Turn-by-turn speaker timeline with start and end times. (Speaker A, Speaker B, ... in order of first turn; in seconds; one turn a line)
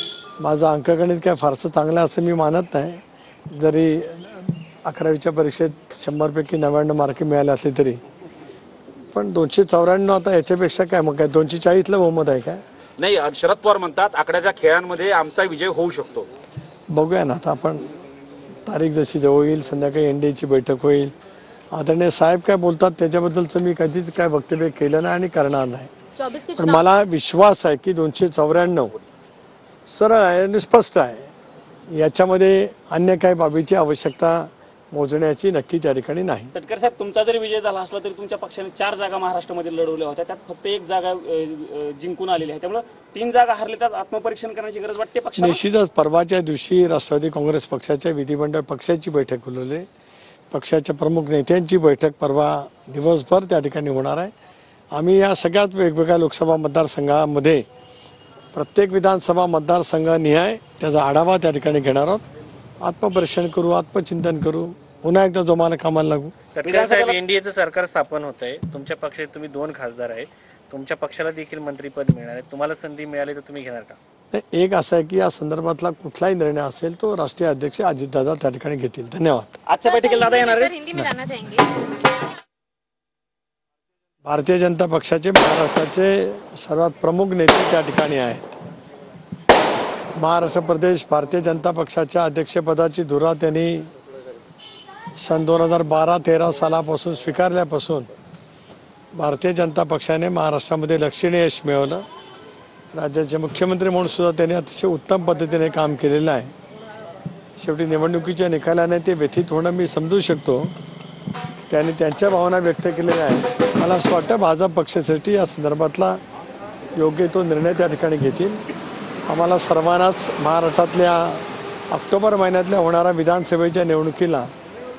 Speaker A: 0.4-3.0
Speaker A: 3.5-8.0
Speaker A: 9.1-12.6
Speaker B: 13.0-16.3
Speaker A: 16.9-17.8
Speaker A: 18.6-21.1
Speaker A: 21.7-25.9
Speaker C: 26.2-26.9
Speaker A: 26.5-28.9
Speaker A: 29.9-31.3
Speaker A: 31.9-36.5
Speaker D: 36.5-45.6
Speaker A: 45.4-49.9
Speaker A: 50.5-54.3
Speaker A: 54.9-57.6
Speaker A: 58.5-62.2
Speaker A: 62.8-66.3
Speaker E: 66.5-74.0
Speaker D: 66.6-67.2
Speaker A: 74.3-79.5
Speaker D: 79.7-80.8
Speaker C: 79.8-81.7
Speaker A: 84.2-88.6
Speaker A: 90.2-93.9
Speaker A: 95.2-98.1
Speaker A: 99.2-102.0
Speaker A: 102.9-106.5
Speaker A: 107.6-110.7
Speaker A: 111.7-116.2
Speaker A: 117.0-118.6
Speaker A: 119.3-124.5